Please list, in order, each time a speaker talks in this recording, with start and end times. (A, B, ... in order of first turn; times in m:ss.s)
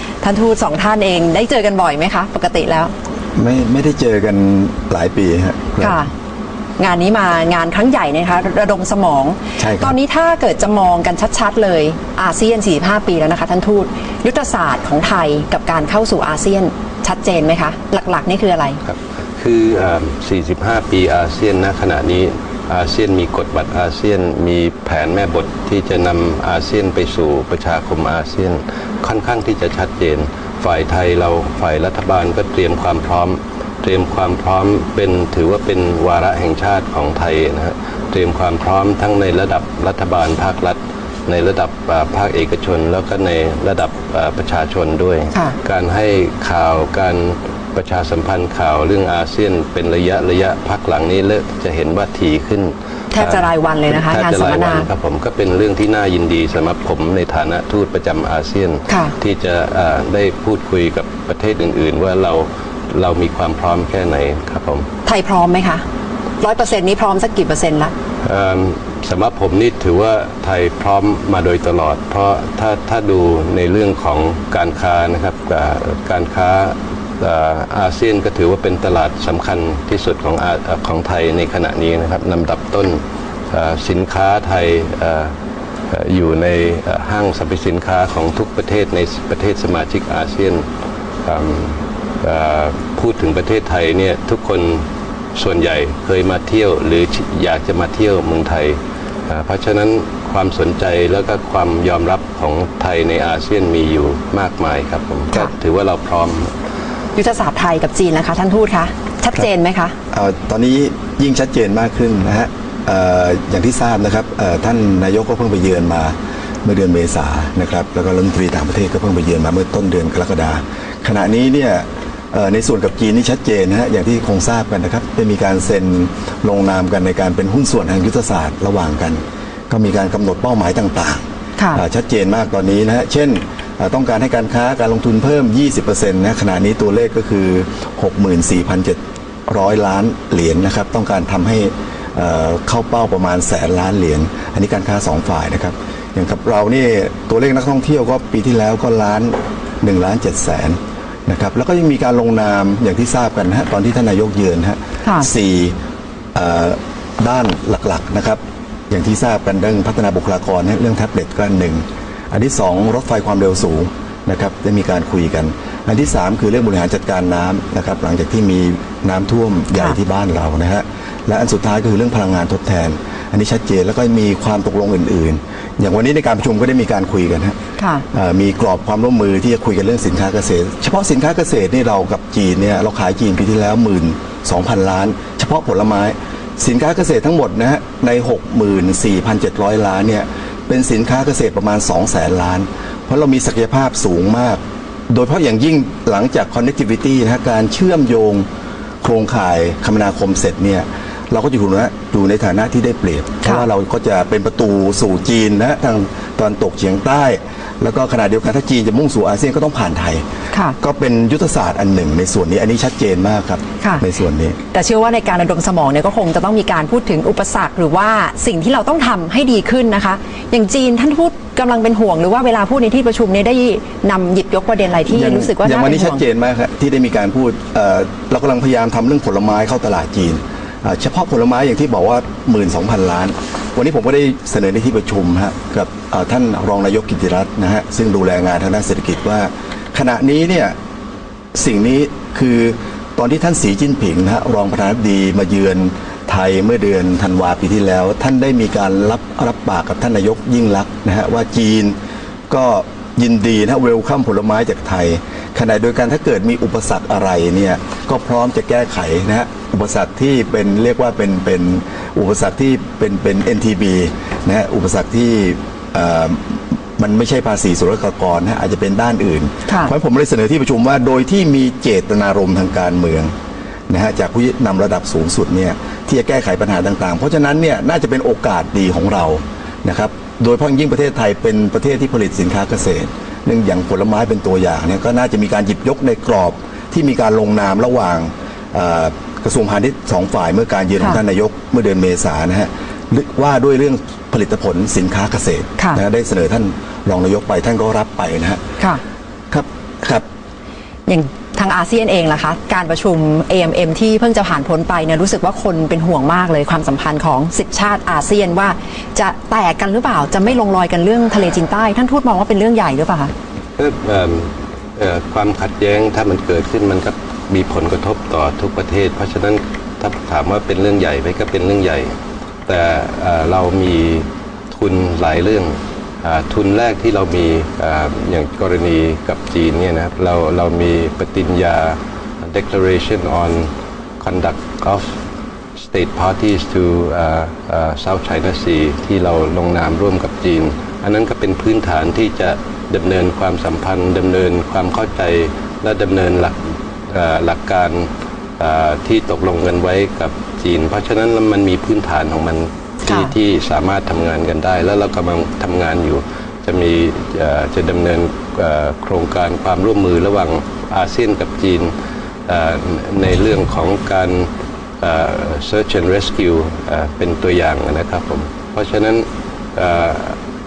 0:00.2-0:02.9 A
0:03.4-0:06.0 B
0:05.8-0:06.1 A
0:06.8-0:18.8 A
0:09.6-0:10.0 B
0:18.8-1:04.9 C
0:53.1-0:54.9 A
0:58.9-0:59.1 A
1:05.0-1:05.8 A
1:06.4-1:07.9 A
1:08.2-1:25.3 C
1:25.9-1:30.7 C
1:31.2-1:46.6 C
1:47.2-1:50.0 A
1:50.1-2:35.8 B
2:36.4-2:57.6 B
2:57.8-2:58.0 A
2:58.1-3:18.5 B
3:19.0-3:30.2 B
3:30.5-3:30.8 A
3:30.8-3:34.6 B
3:34.7-3:46.2 A
3:45.1-4:00.8 B
4:01.5-4:12.0 B
4:12.5-4:33.3 B
4:33.9-4:58.6 B
4:59.5-5:00.2 B
5:01.1-5:13.3 A
5:13.8-5:22.2 C
5:22.7-5:35.2 C
5:35.8-6:01.9 C
5:53.1-5:53.3 A
6:02.5-6:04.5 C
6:05.0-6:10.4 C